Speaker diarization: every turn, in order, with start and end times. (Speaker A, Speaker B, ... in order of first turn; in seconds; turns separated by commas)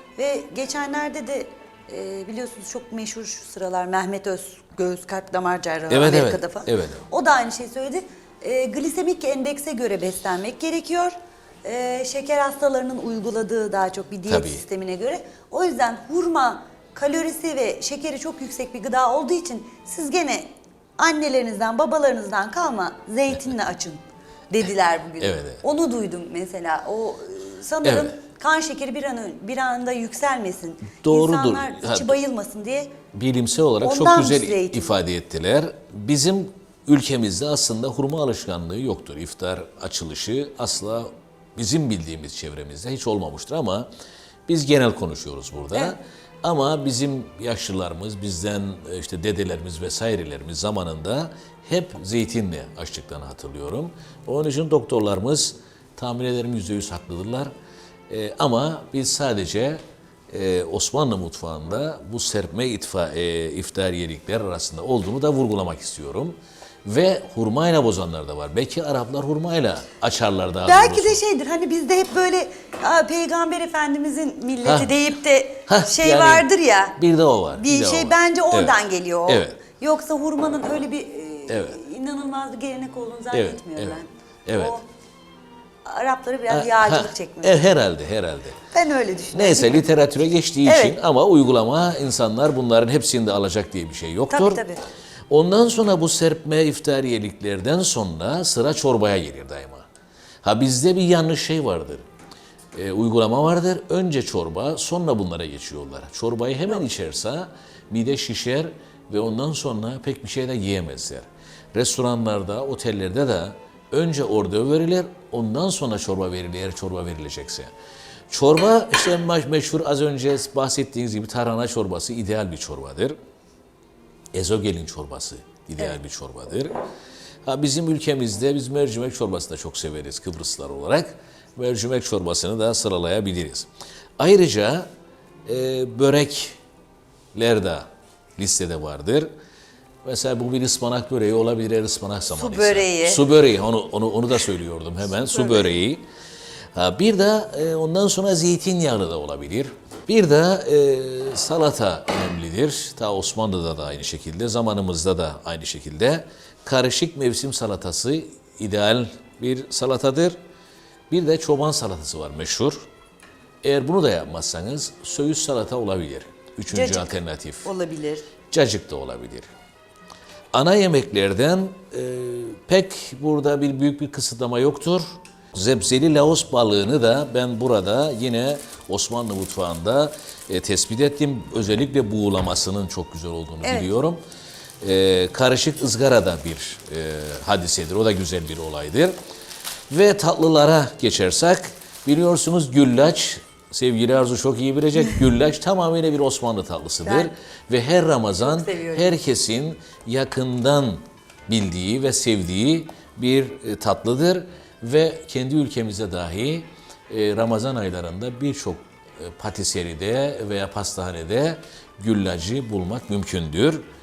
Speaker A: 0.2-32.9, Speaker B: 5.9-7.0, Speaker B: 14.3-14.6, Speaker B: 25.2-25.6, Speaker B: 27.8-28.2, Speaker B: 31.0-32.2, Speaker B: 33.1-43.9, Speaker A: 33.8-35.0, Speaker B: 44.5-57.5, Speaker B: 58.1-71.2, Speaker A: 70.7-77.0, Speaker B: 74.6-75.0, Speaker B: 75.7-79.6, Speaker A: 77.5-84.8, Speaker B: 81.5-81.8, Speaker B: 83.3-84.8, Speaker A: 85.8-87.6, Speaker B: 86.5-88.6, Speaker A: 88.7-89.9, Speaker B: 89.3-94.6, Speaker A: 90.6-91.0, Speaker A: 94.3-94.8, Speaker B: 95.3-99.9, Speaker B: 100.4-102.0, Speaker B: 102.7-117.7, Speaker B: 118.3-123.2, Speaker B: 124.3-126.7, Speaker B: 127.5-134.9, Speaker B: 135.4-136.6, Speaker B: 137.3-139.3, Speaker B: 140.0-146.1, Speaker A: 142.3-143.2, Speaker A: 145.1-145.8, Speaker B: 146.8-160.4, Speaker B: 161.1-162.9, Speaker B: 163.6-167.7, Speaker A: 166.7-168.3, Speaker B: 168.5-169.5, Speaker B: 170.5-184.2, Speaker A: 183.6-183.9, Speaker B: 184.8-189.1, Speaker B: 189.9-213.8, Speaker A: 197.0-197.3, Speaker A: 198.4-199.2